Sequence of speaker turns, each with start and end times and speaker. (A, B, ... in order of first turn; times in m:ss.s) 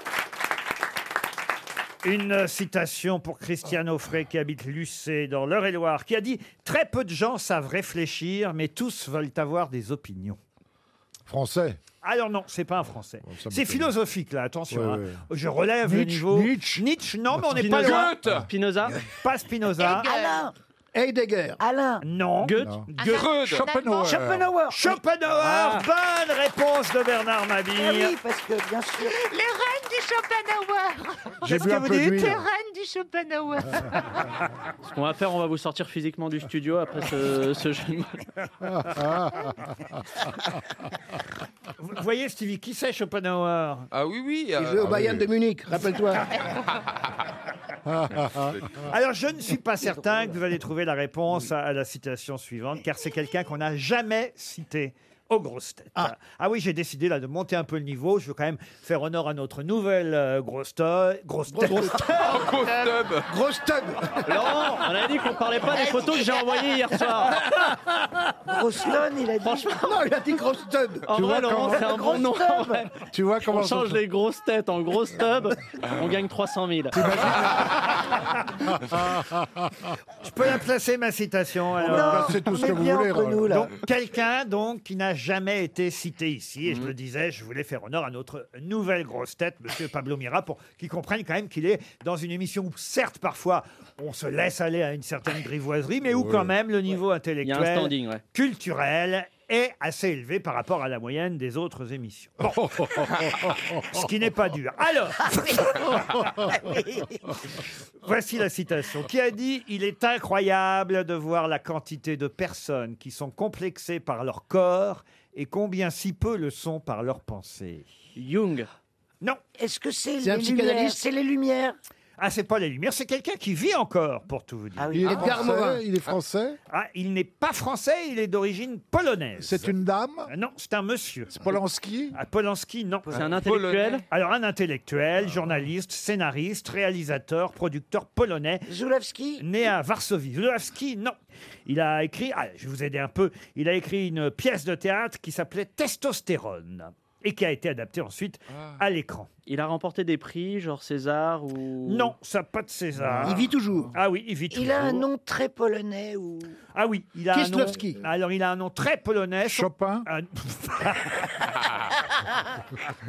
0:02.0-0:10.4 A
0:11.3-0:11.8 B
0:12.0-0:18.2 A
0:13.2-0:13.9 B
0:14.7-0:15.2 B
0:15.8-0:18.5 B
0:17.5-0:19.0 C
0:19.2-0:20.1 A
0:19.8-0:20.5 D
0:19.8-0:20.5 E
0:20.9-0:21.6 F
0:21.6-0:22.0 E
0:22.0-0:23.3 A
0:22.4-0:22.7 C
0:22.6-0:24.5 B
0:23.0-0:24.2 D
0:23.0-0:23.7 G
0:24.0-0:25.0 E
0:24.7-0:28.2 A
0:25.4-0:25.8 C
0:27.8-0:29.1 E
0:29.0-0:34.2 D
0:31.4-0:32.4 B
0:31.6-0:32.3 A
0:34.8-0:38.2 C
0:38.8-0:39.4 B
0:41.8-0:43.9 A
0:43.9-0:45.1 G
0:44.6-0:46.3 F
0:44.8-0:45.2 B
0:47.9-0:48.5 B
0:48.9-1:02.0 A
1:01.5-1:02.7 F
1:02.0-1:03.3 G
1:03.2-1:04.8 F
1:04.2-1:07.4 C
1:07.4-1:07.7 F
1:08.5-1:10.0 E
1:09.4-1:09.8 C
1:09.8-1:11.0 F
1:11.1-1:12.9 C
1:11.1-1:11.8 B
1:11.8-1:12.8 E
1:13.1-1:14.0 B
1:13.5-1:17.1 C
1:16.9-1:17.7 B
1:19.0-1:19.2 B
1:20.2-1:22.5 A
1:21.8-1:23.7 E
1:21.8-1:23.6 B
1:23.5-1:42.7 A
1:36.1-1:36.5 B
1:37.4-1:38.2 C
1:43.8-1:46.0 A
1:48.0-1:57.9 A
1:58.2-1:58.7 C
1:59.6-2:01.8 E
2:00.2-2:01.0 F
2:02.2-2:05.4 A
2:04.8-2:05.5 E
2:04.9-2:06.6 B
2:05.0-2:05.8 F
2:06.7-2:09.7 A
2:09.4-2:10.3 B
2:10.3-2:11.4 A
2:11.3-2:12.2 B
2:12.1-2:13.1 A
2:13.1-2:14.0 G
2:13.1-2:14.0 C
2:14.1-2:18.7 A
2:18.7-2:19.4 E
2:19.4-2:29.3 A
2:29.5-2:32.1 C
2:31.9-2:35.1 A
2:33.0-2:33.4 B
2:33.2-2:33.9 F
2:34.5-2:36.6 E
2:36.7-2:41.3 A
2:37.3-2:38.0 F
2:39.4-2:40.1 B